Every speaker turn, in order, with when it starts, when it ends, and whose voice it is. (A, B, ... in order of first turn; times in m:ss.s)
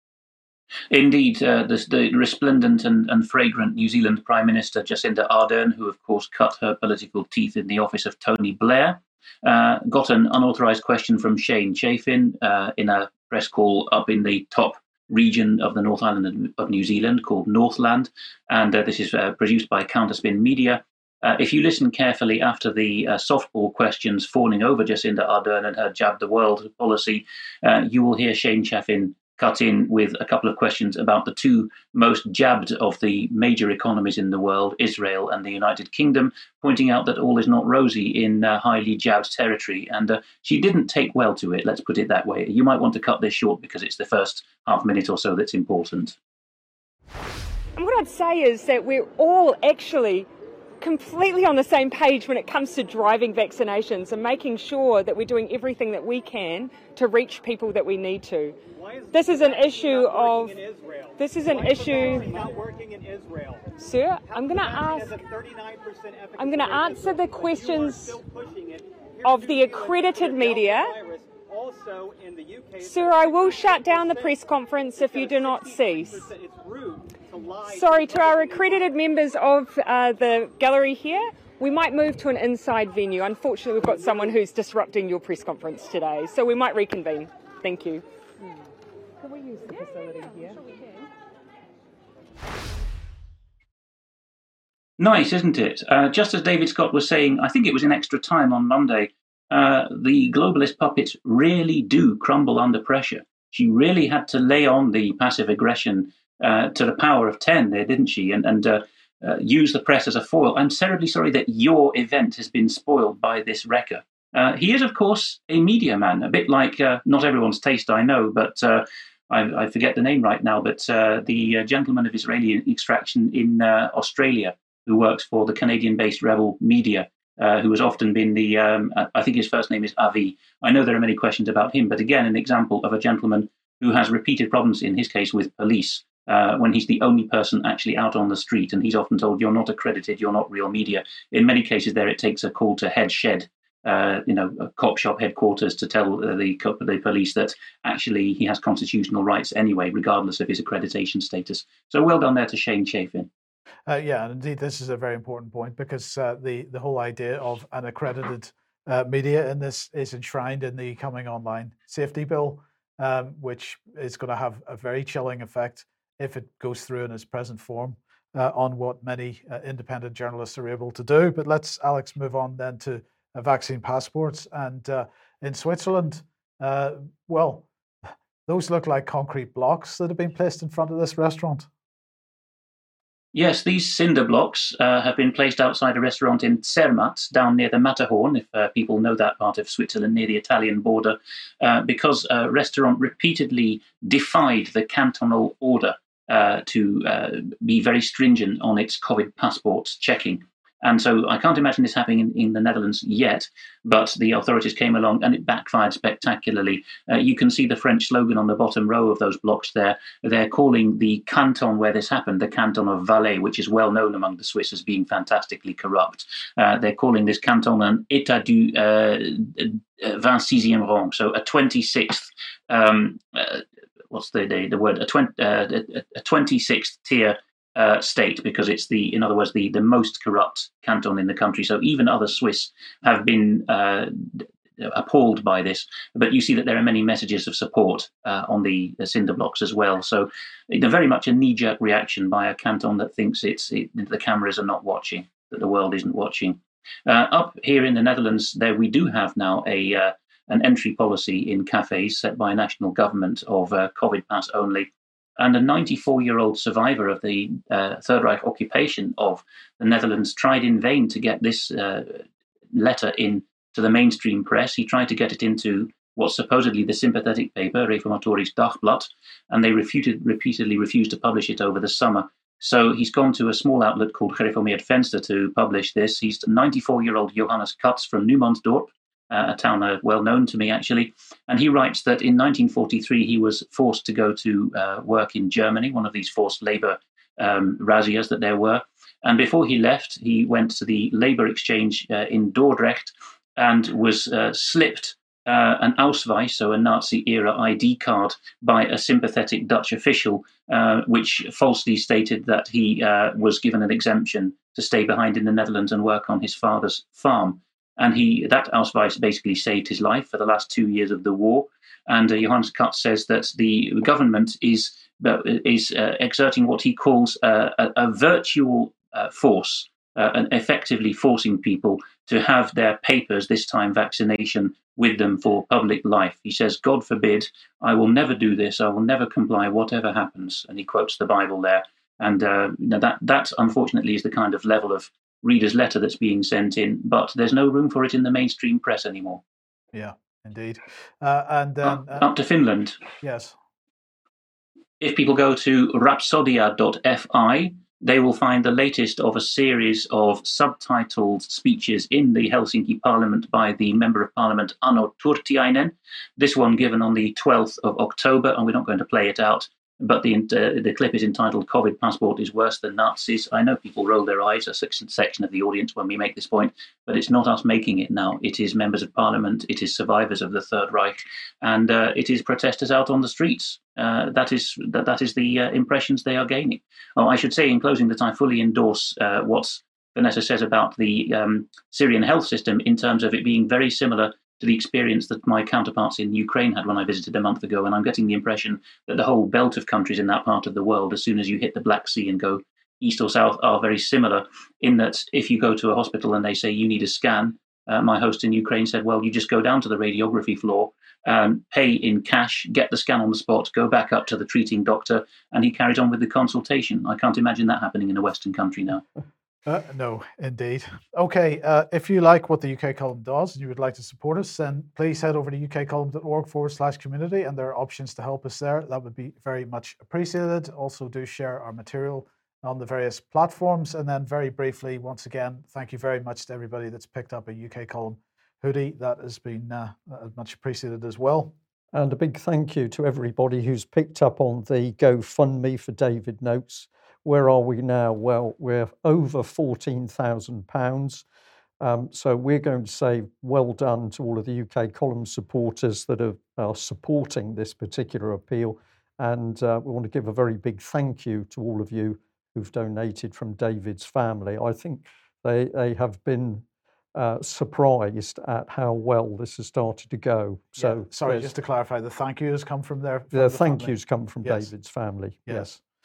0:00.9-0:46.2 A
0:47.8-0:50.3 B
0:50.8-0:58.6 B
0:58.8-1:03.6 C
0:59.1-1:00.6 B
1:01.2-1:02.6 B
1:03.8-1:05.2 B
1:04.2-1:18.9 C
1:06.4-1:08.2 B
1:09.2-1:11.0 B
1:12.8-1:16.3 B
1:17.6-1:28.0 B
1:29.2-1:30.7 B
1:35.0-2:33.3 A
2:33.9-2:57.6 D
2:58.5-3:01.7 D
3:03.3-5:39.4 A
5:39.9-5:42.3 D
5:41.9-5:43.0 A
5:43.2-5:43.5 D
5:45.0-6:49.0 A
6:49.6-7:11.5 D
7:11.9-7:21.2 E
7:21.8-7:41.5 E
7:40.8-7:44.7 D
7:43.3-7:45.7 E
7:45.5-7:45.8 D